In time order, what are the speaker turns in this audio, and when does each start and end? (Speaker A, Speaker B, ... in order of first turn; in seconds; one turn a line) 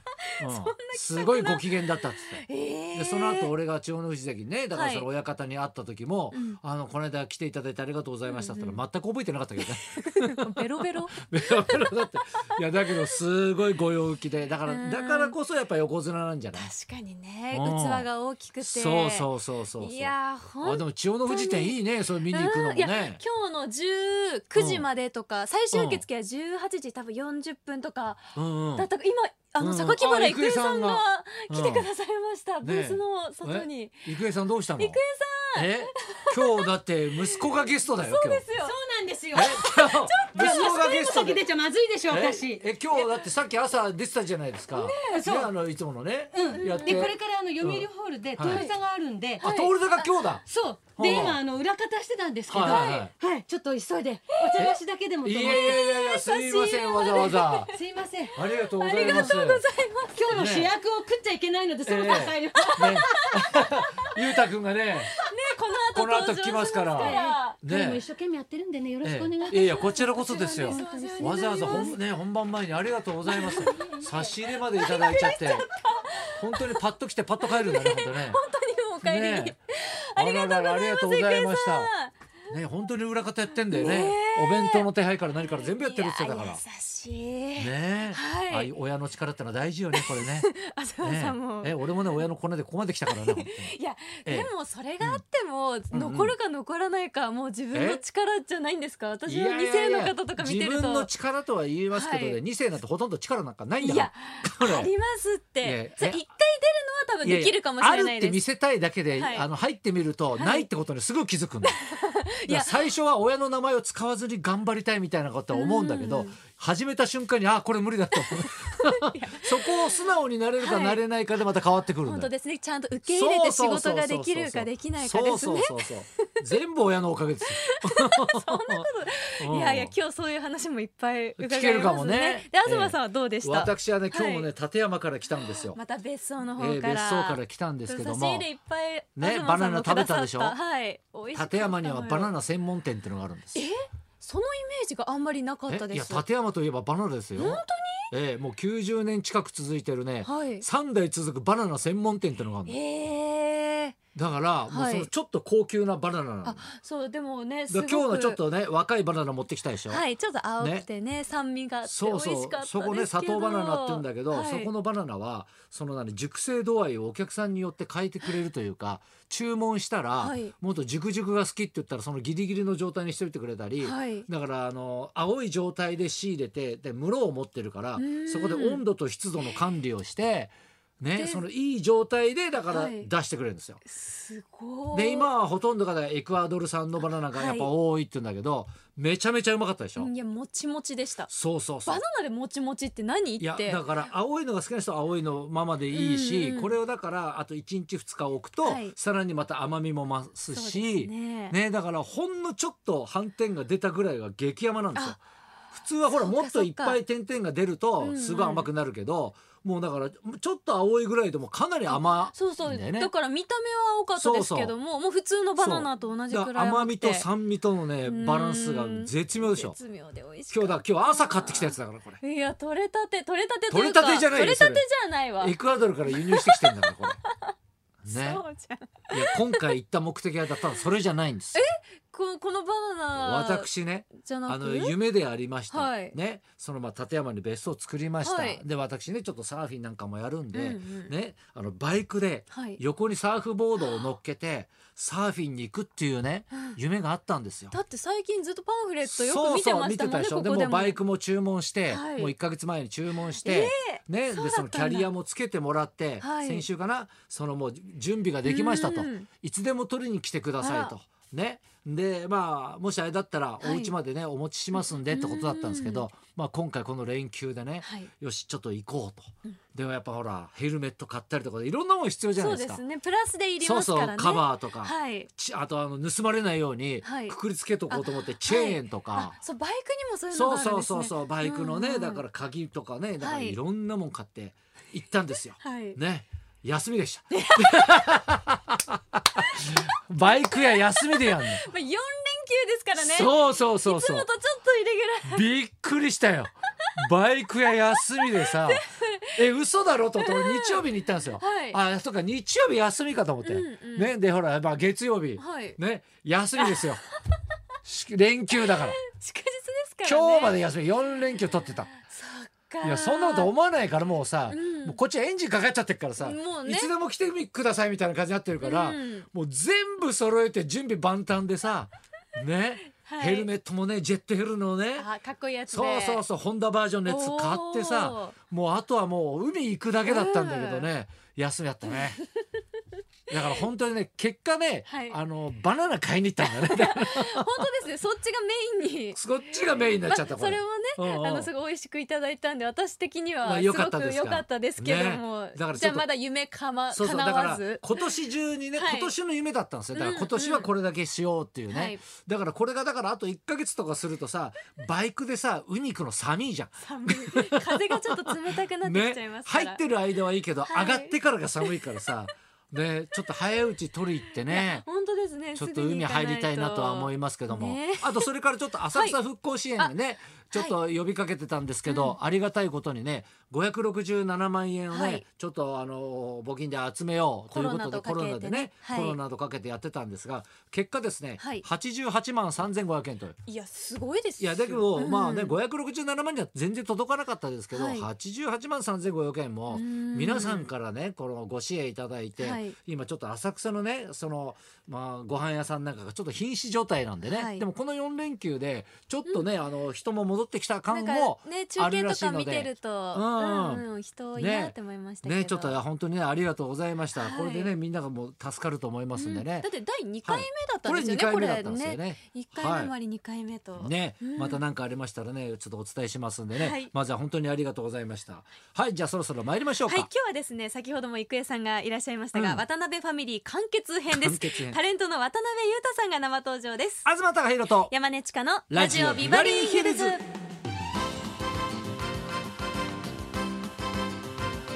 Speaker A: 0.3-3.5
Speaker B: 0.4-16.7
Speaker A: 4.7-5.1
Speaker A: 6.3-6.6
Speaker A: 8.3-8.8
Speaker A: 9.6-11.9
Speaker A: 12.5-13.2
Speaker A: 14.7-15.4
Speaker A: 16.6-34.1
Speaker B: 17.5-18.1
Speaker B: 18.6-23.2
Speaker B: 24.6-24.9
Speaker B: 25.7-26.0
Speaker B: 28.4-28.9
Speaker B: 29.6-31.9
Speaker B: 32.6-35.0
Speaker A: 34.8-36.7
Speaker B: 35.5-38.5
Speaker A: 37.2-38.8
Speaker C: 38.6-42.6
Speaker B: 39.3-41.5
Speaker A: 39.4-41.4
Speaker B: 42.1-48.7
Speaker A: 42.9-43.2
Speaker A: 44.7-45.3
Speaker C: 45.1-45.5
Speaker C: 46.3-49.5
Speaker A: 46.5-47.2
Speaker A: 48.4-48.8
Speaker A: 49.4-50.1
Speaker B: 49.4-50.4
Speaker C: 50.5-56.2
Speaker B: 51.0-51.4
Speaker A: 51.0-51.4
Speaker B: 52.5-53.1
Speaker A: 52.5-53.0
Speaker A: 54.3-54.8
Speaker B: 54.6-57.7
Speaker A: 55.4-57.8
Speaker C: 57.0-58.4
Speaker B: 58.4-59.6
Speaker A: 58.8-60.5
Speaker C: 58.9-59.5
Speaker C: 60.1-63.5
Speaker B: 60.3-60.7
Speaker B: 61.9-65.1
Speaker A: 62.0-63.4
Speaker A: 65.3-67.6
Speaker B: 65.9-68.0
Speaker C: 66.9-72.0
Speaker B: 69.0-75.7
Speaker A: 70.5-72.0
Speaker A: 73.3-73.8
Speaker C: 73.6-74.1
Speaker A: 74.7-76.8
Speaker B: 76.4-78.4
Speaker A: 77.4-82.2
Speaker B: 79.0-79.6
Speaker B: 80.2-81.9
Speaker B: 82.5-86.6
Speaker A: 83.7-84.9
Speaker A: 85.4-88.7
Speaker B: 87.6-90.5
Speaker A: 89.9-92.2
Speaker B: 91.0-95.2
Speaker A: 93.1-101.1
Speaker B: 95.9-96.3
Speaker B: 97.7-98.0
Speaker B: 99.3-104.9
Speaker A: 101.9-102.4
Speaker A: 103.8-108.4
Speaker B: 105.6-106.2
Speaker B: 107.2-111.8
Speaker A: 109.1-109.5
Speaker A: 110.4-110.7
Speaker A: 111.6-112.9
Speaker B: 112.5-122.3
Speaker A: 115.5-116.4
Speaker A: 118.3-119.9
Speaker A: 120.6-121.0
Speaker A: 122.0-126.3
Speaker B: 123.0-128.9
Speaker A: 127.6-134.5
Speaker B: 129.4-129.9
Speaker B: 131.4-135.8
Speaker A: 135.3-142.3
Speaker B: 136.6-138.5
Speaker B: 139.2-140.6
Speaker B: 141.3-143.7
Speaker A: 143.5-146.3
Speaker B: 145.7-152.8
Speaker A: 147.4-148.1
Speaker A: 150.2-150.7
Speaker A: 152.7-154.0
Speaker B: 154.2-156.6
Speaker A: 154.7-155.1
Speaker A: 156.4-158.4
Speaker B: 157.7-160.0
Speaker A: 159.9-164.7
Speaker B: 160.6-160.9
Speaker B: 161.8-183.8
Speaker A: 170.2-170.5
Speaker A: 173.8-174.3
Speaker A: 178.0-178.8
Speaker A: 181.2-181.4
Speaker A: 182.7-183.1
Speaker A: 183.8-185.3
Speaker B: 184.9-190.1
Speaker A: 187.3-187.7
Speaker A: 190.0-191.3
Speaker B: 191.3-192.0
Speaker A: 191.8-194.1
Speaker B: 193.4-205.2
Speaker A: 195.9-196.8
Speaker A: 198.6-199.0
Speaker A: 200.5-201.6
Speaker B: 205.7-213.1
Speaker A: 206.1-207.0
Speaker A: 208.0-208.7
Speaker A: 211.9-217.3
Speaker B: 214.2-214.7
Speaker B: 215.6-219.8
Speaker A: 218.0-227.6
Speaker B: 220.5-222.2
Speaker B: 223.7-224.8
Speaker B: 225.4-227.2
Speaker B: 228.0-228.4
Speaker A: 228.1-229.7
Speaker B: 229.1-231.6
Speaker A: 231.5-235.0
Speaker B: 233.2-247.8
Speaker A: 235.7-236.2
Speaker A: 238.2-238.6
Speaker A: 240.5-241.2
Speaker A: 242.5-242.8
Speaker A: 246.5-246.8
Speaker A: 247.7-251.0
Speaker B: 249.0-272.8
Speaker A: 251.9-252.3
Speaker A: 253.3-255.1
Speaker A: 256.2-256.7
Speaker A: 258.4-259.3
Speaker A: 260.6-260.9
Speaker A: 263.6-263.9
Speaker A: 264.7-266.1
Speaker A: 267.8-268.1
Speaker A: 272.4-275.3
Speaker B: 273.6-279.4
Speaker A: 277.0-277.4
Speaker A: 277.9-282.2
Speaker B: 280.3-291.6
Speaker A: 283.2-283.6
Speaker A: 285.6-286.0
Speaker A: 287.3-288.1
Speaker A: 289.8-295.5
Speaker B: 292.9-294.3
Speaker B: 295.3-307.0
Speaker A: 298.2-299.4
Speaker A: 300.2-301.8
Speaker A: 303.4-304.1
Speaker A: 305.4-305.8
Speaker A: 306.6-306.9
Speaker B: 307.9-309.0
Speaker A: 308.6-310.6
Speaker B: 310.0-311.9
Speaker A: 311.9-313.5
Speaker B: 312.8-325.1
Speaker A: 314.5-315.0
Speaker A: 316.2-316.9
Speaker A: 318.6-319.3
Speaker A: 323.0-323.5
Speaker A: 325.0-326.2
Speaker B: 325.7-332.2
Speaker A: 327.1-328.4
Speaker A: 330.0-330.9
Speaker A: 331.9-332.3
Speaker B: 333.3-337.7
Speaker A: 333.3-333.6
Speaker A: 334.9-335.2
Speaker A: 336.4-348.1
Speaker B: 339.1-341.5
Speaker B: 343.4-346.1
Speaker B: 346.9-364.8
Speaker A: 348.7-349.1
Speaker A: 349.9-350.7
Speaker A: 351.7-352.0
Speaker A: 356.8-359.8
Speaker A: 360.7-361.8
Speaker A: 364.4-368.3
Speaker B: 365.6-383.4
Speaker A: 368.9-369.2
Speaker A: 370.5-370.8
Speaker A: 371.9-372.2
Speaker A: 374.9-375.2
Speaker A: 377.5-379.2
Speaker A: 381.4-381.7
Speaker A: 383.5-385.6
Speaker B: 384.4-409.7
Speaker A: 387.7-388.1
Speaker A: 389.7-390.7
Speaker A: 392.4-392.8
Speaker A: 397.2-397.7
Speaker A: 400.9-405.8
Speaker A: 407.1-407.8
Speaker A: 409.1-414.6
Speaker B: 410.2-412.9
Speaker B: 413.8-420.1
Speaker A: 416.5-416.9
Speaker A: 419.8-427.1
Speaker B: 422.3-422.6
Speaker B: 424.1-424.8
Speaker B: 427.1-427.9
Speaker A: 427.7-430.3
Speaker B: 428.7-430.2